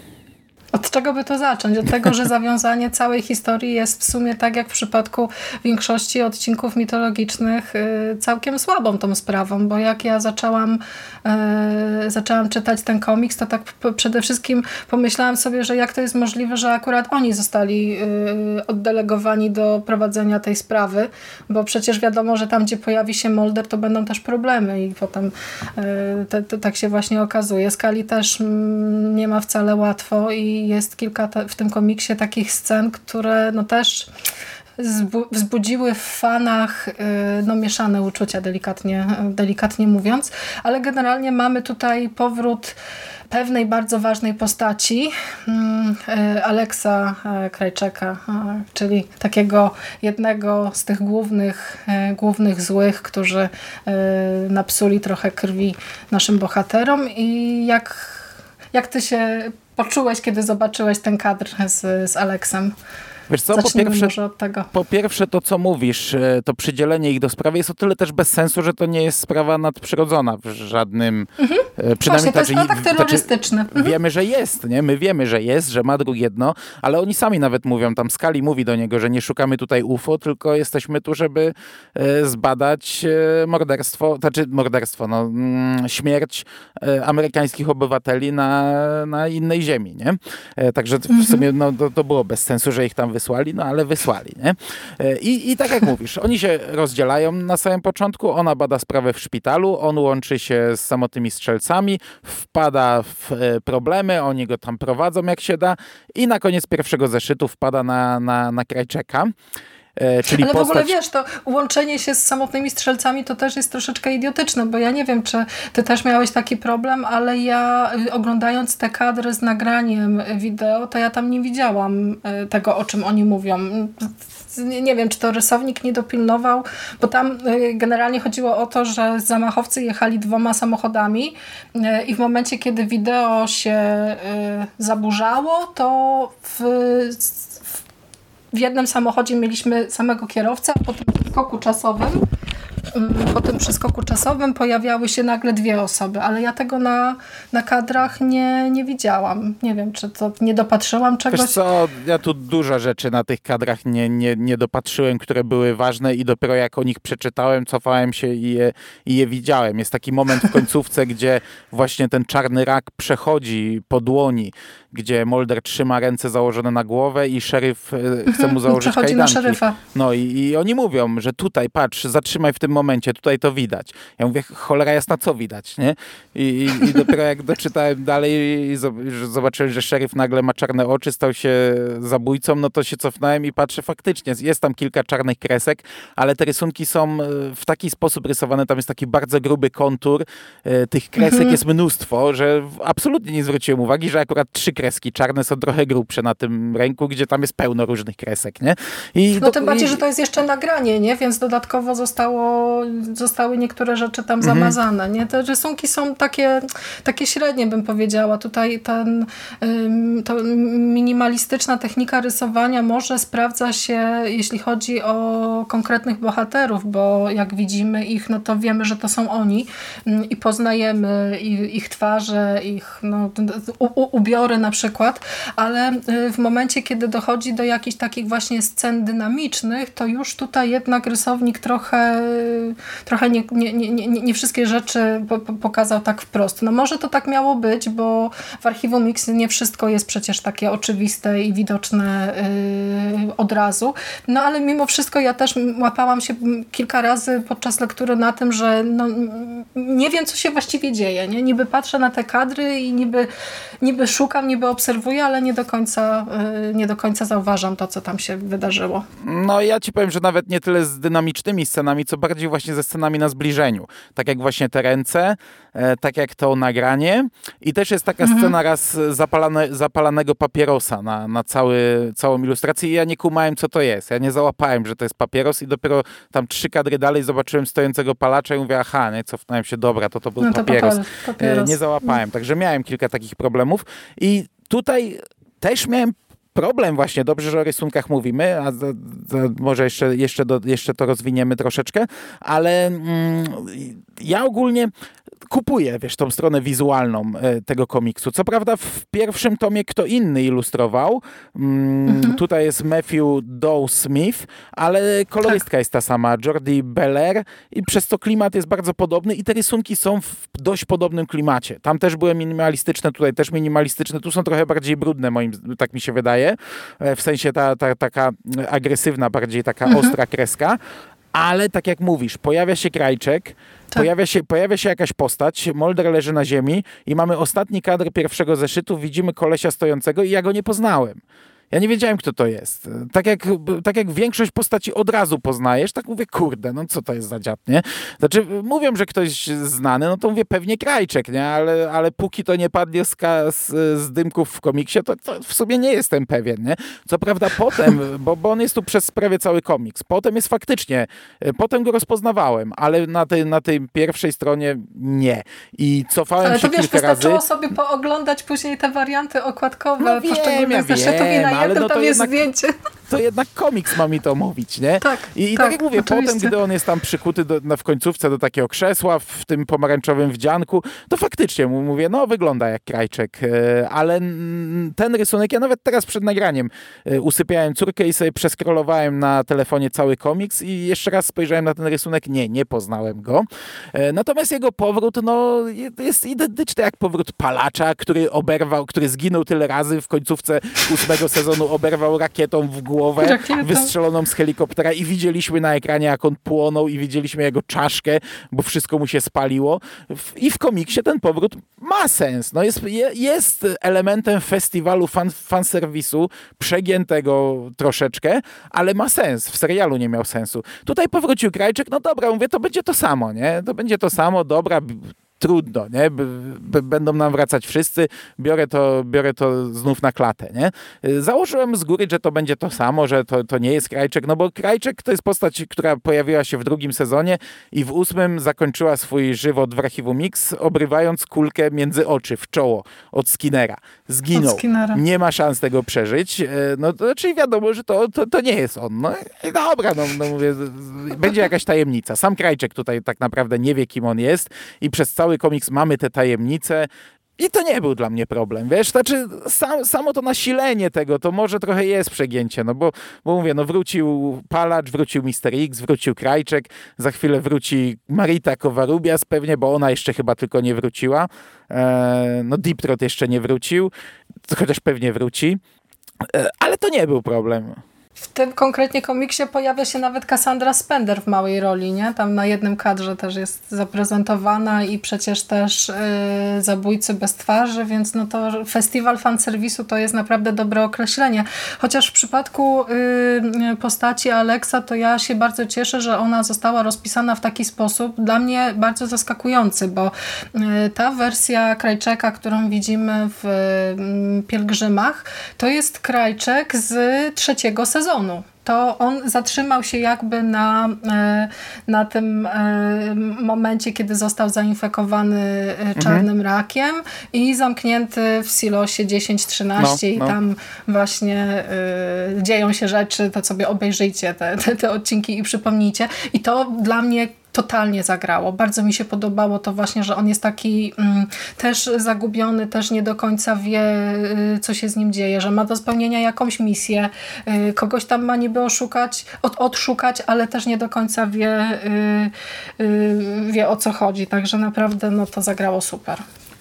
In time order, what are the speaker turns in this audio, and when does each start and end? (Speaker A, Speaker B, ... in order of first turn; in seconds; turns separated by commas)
Speaker A: 0.7-34.1, Speaker A: 34.8-42.8, Speaker A: 43.3-62.7, Speaker B: 63.3-64.1, Speaker A: 63.5-64.7, Speaker B: 64.7-109.3, Speaker A: 71.4-74.0, Speaker A: 91.1-91.4, Speaker B: 110.0-110.9, Speaker A: 110.3-137.6, Speaker A: 138.5-142.2, Speaker A: 142.9-151.6, Speaker B: 151.3-200.0, Speaker A: 168.3-169.8, Speaker A: 191.2-191.6, Speaker A: 199.4-253.3, Speaker B: 204.4-204.8, Speaker A: 253.8-259.1, Speaker B: 259.2-294.9, Speaker A: 268.2-268.5, Speaker A: 280.4-282.1, Speaker B: 295.5-320.8, Speaker A: 302.1-302.4, Speaker A: 319.9-320.1, Speaker B: 321.4-331.2, Speaker B: 331.7-357.4, Speaker A: 356.4-362.7, Speaker B: 360.0-362.4, Speaker B: 363.1-463.9, Speaker A: 365.0-366.6, Speaker A: 393.2-393.9, Speaker A: 434.3-435.0, Speaker B: 464.5-465.6, Speaker B: 466.2-467.8, Speaker A: 468.3-536.2, Speaker B: 506.0-506.3, Speaker B: 509.8-510.4